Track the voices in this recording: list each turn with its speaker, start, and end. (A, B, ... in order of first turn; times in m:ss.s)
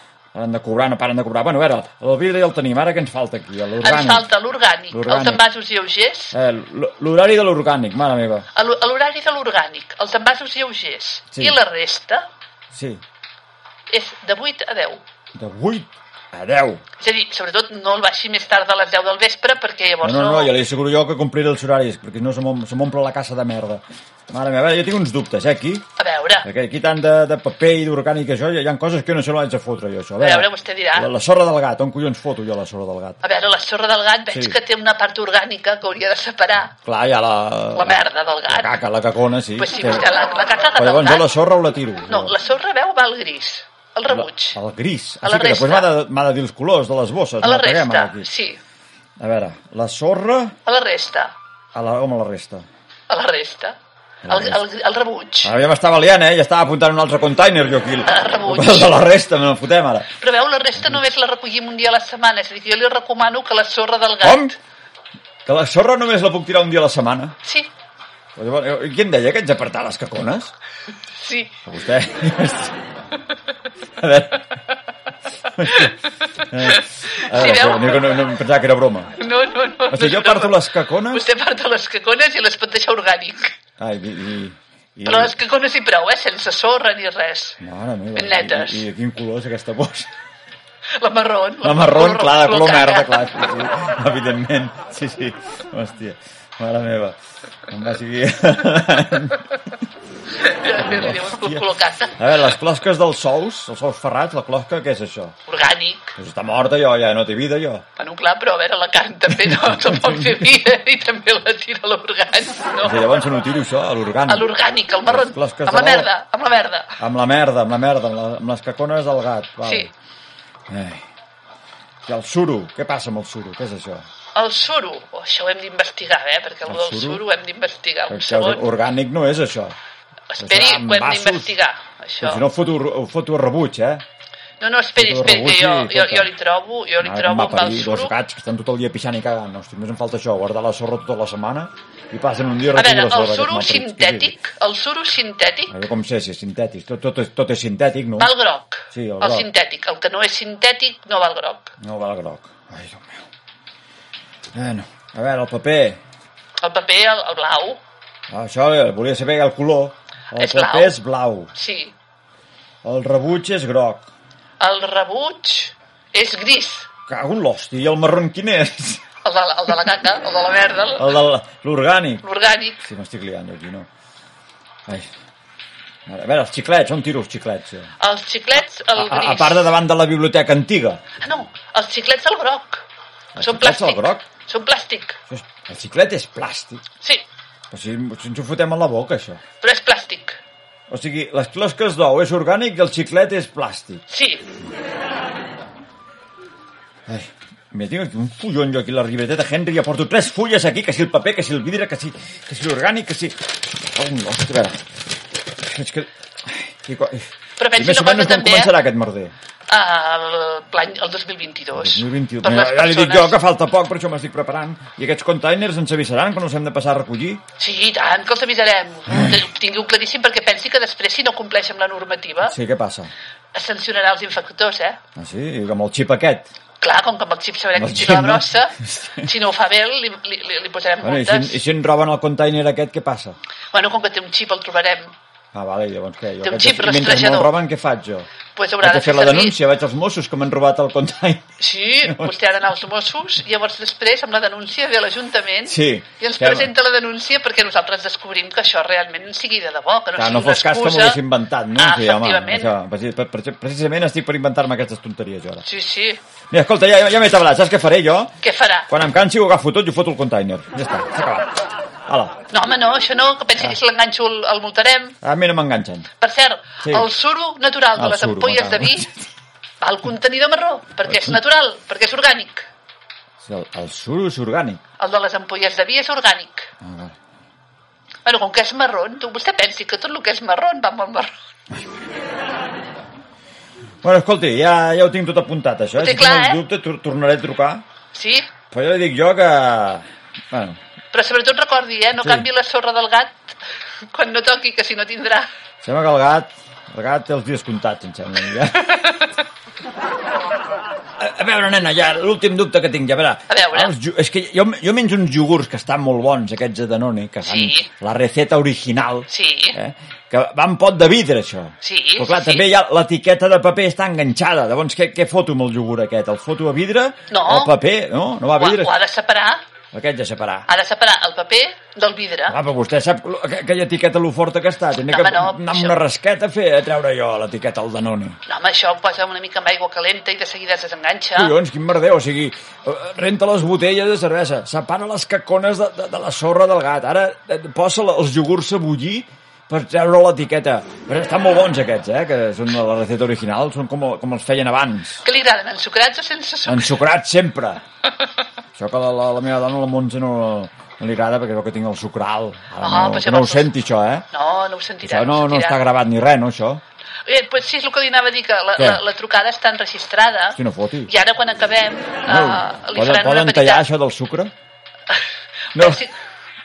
0:00.3-0:04.3 A
0:03.8-0:06.3 B
0:04.9-0:05.4 A
0:06.3-0:08.5 A
0:08.5-0:12.2 B
0:11.3-0:11.6 A
0:12.7-0:13.0 A
0:13.9-0:15.0 B
0:15.4-0:16.8 A
0:17.0-0:20.5 B
0:20.0-0:25.8 A
0:26.0-0:26.5 B
0:26.4-0:33.2 A
0:30.2-0:31.1 B
0:33.2-0:36.7 B
0:34.3-0:34.6 A
0:36.8-0:40.1 A
0:37.7-0:38.7 B
0:39.6-0:41.3 B
0:40.8-0:42.3 A
0:42.1-0:44.6 B
0:44.1-0:48.3 A
0:45.2-0:45.9 B
0:47.4-0:48.6 B
0:49.2-0:50.5 A
0:50.6-0:51.3 B
0:51.7-0:52.6 A
0:53.1-0:53.7 B
0:54.2-0:54.6 A
0:54.3-0:55.5 B
0:55.4-1:00.2 A
0:58.0-0:59.0 B
1:00.2-1:04.5 B
1:04.2-1:04.5 A
1:05.4-1:07.4 A
1:07.4-1:07.7 B
1:08.4-1:10.5 A
1:11.2-1:11.6 B
1:11.6-1:12.8 A
1:14.0-1:14.5 A
1:15.5-1:19.2 A
1:15.6-1:16.0 B
1:16.6-1:18.4 B
1:19.2-1:23.6 B
1:19.9-1:21.2 A
1:23.8-1:25.4 A
1:25.0-1:27.6 B
1:27.6-1:30.1 A
1:28.1-1:28.8 B
1:31.0-1:33.4 B
1:31.6-1:37.2 A
1:37.7-1:39.7 A
1:40.4-1:42.4 B
1:40.6-1:45.3 A
1:45.5-1:46.1 B
1:46.2-1:47.8 A
1:48.0-1:53.2 B
1:49.3-1:50.4 A
1:52.8-1:54.5 A
1:54.2-1:57.0 B
1:55.1-1:56.1 A
1:57.0-1:59.9 A
1:59.6-1:59.9 B
2:00.7-2:01.0 A
2:02.0-2:04.0 A
2:04.3-2:08.6 B
2:06.7-2:07.2 A
2:08.1-2:09.8 A
2:10.3-2:12.4 B
2:10.4-2:11.5 A
2:12.2-2:14.0 A
2:14.6-2:18.1 B
2:15.0-2:16.3 A
2:17.0-2:24.4 A
2:22.7-2:25.7 B
2:25.7-2:28.3 A
2:28.2-2:31.7 B
2:28.9-2:29.5 A
2:31.8-2:33.2 A
2:34.5-2:36.0 A
2:36.6-2:37.8 B
2:38.3-2:41.5 A
2:40.3-2:41.0 B
2:41.5-2:41.9 B
2:42.8-2:44.1 A
2:44.6-2:46.9 B
2:47.1-2:49.0 A
2:49.2-2:51.2 B
2:51.0-2:52.2 A
2:52.2-2:52.8 B
2:52.8-2:53.9 A
2:56.1-2:57.9 A
2:58.0-2:59.7 B
2:58.9-3:01.0 A
3:01.2-3:02.8 B
3:03.3-3:04.2 A
3:03.4-3:05.2 B
3:05.3-3:06.8 A
3:07.7-3:09.4 A
3:09.6-3:10.4 B
3:10.9-3:14.0 A
3:14.1-3:14.4 B
3:17.1-3:24.8 A
3:25.6-3:29.3 A
3:27.6-3:28.8 B
3:29.7-3:33.4 B
3:31.7-3:37.4 A
3:37.6-3:42.6 B
3:39.1-3:39.4 A
3:42.4-3:43.1 A
3:43.5-3:45.0 B
3:45.1-3:46.5 A
3:46.8-3:51.6 B
3:47.8-3:49.3 A
3:51.0-3:53.4 A
3:53.7-3:55.1 B
3:55.5-3:58.3 A
3:56.4-3:57.5 B
3:58.6-3:59.6 B
3:58.8-4:01.4 A
4:01.6-4:11.2 B
4:02.0-4:02.3 A
4:05.6-4:06.7 A
4:10.2-4:15.6 A
4:11.7-4:12.7 B
4:15.6-4:16.2 B
4:16.5-4:18.3 A
4:18.4-4:18.9 B
4:18.9-4:22.4 A
4:22.5-4:25.2 B
4:25.2-4:26.1 A
4:26.2-4:29.1 B
4:28.0-4:29.2 A
4:29.8-4:32.6 B
4:31.1-4:31.4 A
4:33.4-4:34.8 A
4:35.0-4:36.7 B
4:36.8-4:37.2 A
4:38.2-4:41.3 B
4:44.0-4:47.8 A
4:46.0-4:46.6 B
4:48.1-4:48.5 B
4:48.7-4:50.8 A
4:51.1-4:53.5 B
4:52.2-4:52.5 A
4:54.1-4:55.5 B
4:55.8-4:59.1 A
5:01.2-5:18.9 A
5:03.5-5:03.9 B
5:07.4-5:07.9 B
5:09.3-5:09.8 B
5:11.8-5:12.6 B
5:17.3-5:17.7 B
5:18.6-5:19.6 B
5:19.9-5:20.7 A
5:20.7-5:22.6 B
5:22.5-5:28.4 A
5:25.0-5:26.0 B
5:28.5-5:31.5 B
5:31.3-5:45.2 A
5:45.2-5:47.0 B
5:46.6-5:47.8 A
5:48.8-5:54.2 A
5:52.8-5:53.7 B
5:54.3-5:55.8 B
5:55.0-5:56.8 A
5:57.2-6:03.8 B
5:58.8-5:59.0 A
6:00.5-6:01.1 A
6:02.3-6:04.5 A
6:05.7-6:06.2 B
6:05.7-6:06.0 A